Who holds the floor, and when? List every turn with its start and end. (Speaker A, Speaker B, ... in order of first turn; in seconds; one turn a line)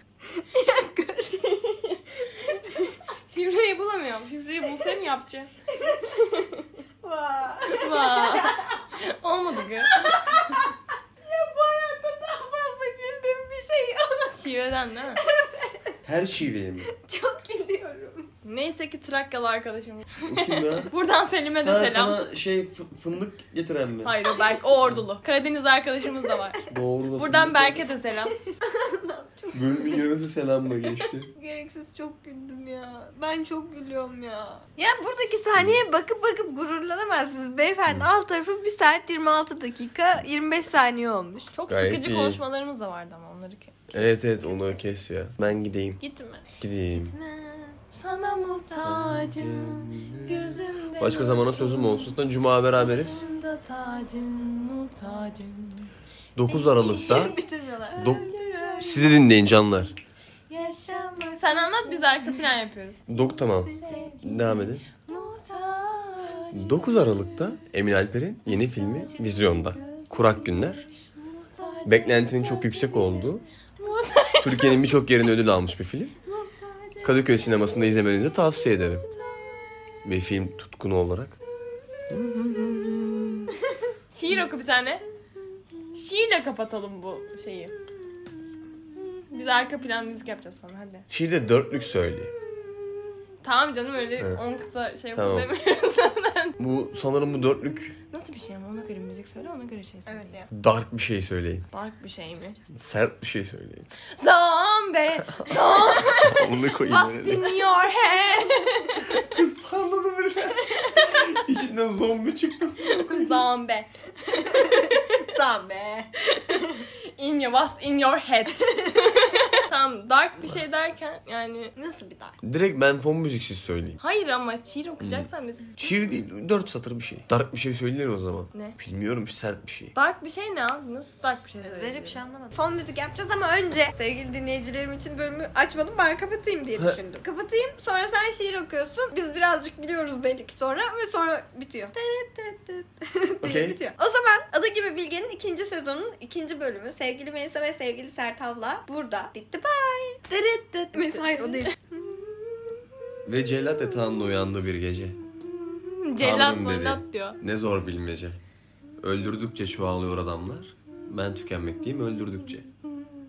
Speaker A: 0.3-2.9
Speaker B: 1.6-2.0
Speaker B: 2.8-6.7
Speaker A: 5.8-6.2
Speaker A: 7.0-8.8
Speaker B: 7.7-10.7
Speaker A: 9.9-10.7
Speaker A: 11.2-14.4
Speaker B: 14.3-15.2
Speaker A: 15.2-15.9
Speaker C: 16.0-16.9
Speaker A: 16.9-18.3
Speaker B: 18.4-22.2
Speaker C: 20.2-20.9
Speaker C: 21.6-24.2
Speaker B: 24.0-26.6
Speaker C: 26.7-27.9
Speaker B: 27.1-28.3
Speaker A: 28.6-30.0
Speaker C: 29.5-31.3
Speaker A: 31.0-41.5
Speaker B: 41.5-44.1
Speaker C: 41.7-42.4
Speaker C: 43.9-46.0
Speaker A: 44.3-44.8
Speaker B: 46.0-46.4
Speaker C: 46.6-47.1
Speaker A: 46.9-48.7
Speaker B: 47.9-52.2
Speaker C: 48.8-53.2
Speaker B: 52.7-55.9
Speaker C: 56.4-57.4
Speaker B: 56.5-57.4
Speaker A: 56.8-59.2
Speaker B: 57.9-59.1
Speaker C: 58.0-58.3
Speaker C: 58.8-60.0
Speaker A: 60.5-62.5
Speaker B: 60.6-67.5
Speaker C: 63.1-64.8
Speaker A: 63.7-64.3
Speaker C: 66.5-70.8
Speaker B: 68.5-74.9
Speaker C: 71.8-73.4
Speaker C: 74.4-76.1
Speaker A: 76.3-77.4
Speaker C: 77.0-79.0
Speaker B: 77.8-80.1
Speaker C: 80.0-81.4
Speaker B: 81.6-82.2
Speaker C: 82.1-83.5
Speaker B: 84.1-85.0
Speaker B: 85.9-87.7
Speaker B: 89.0-91.0
Speaker C: 91.1-92.3
Speaker B: 92.3-96.6
Speaker C: 95.1-95.5
Speaker C: 96.6-97.9
Speaker B: 98.1-100.4
Speaker A: 100.0-100.5
Speaker C: 100.5-101.7
Speaker B: 101.7-102.6
Speaker C: 102.7-103.9
Speaker B: 104.2-109.3
Speaker A: 105.5-106.4
Speaker C: 106.2-107.5
Speaker A: 108.3-108.6
Speaker C: 109.2-113.5
Speaker B: 112.8-113.9
Speaker A: 114.3-116.8
Speaker B: 117.2-121.7
Speaker A: 118.8-119.5
Speaker A: 121.8-122.4
Speaker C: 122.4-124.0
Speaker B: 124.0-126.1
Speaker C: 125.0-129.9
Speaker B: 129.9-132.2
Speaker A: 131.6-150.2
Speaker C: 143.4-143.8
Speaker B: 150.3-151.7
Speaker A: 150.9-151.7
Speaker C: 153.2-155.2
Speaker B: 155.4-157.4
Speaker C: 156.2-158.4
Speaker C: 159.0-162.7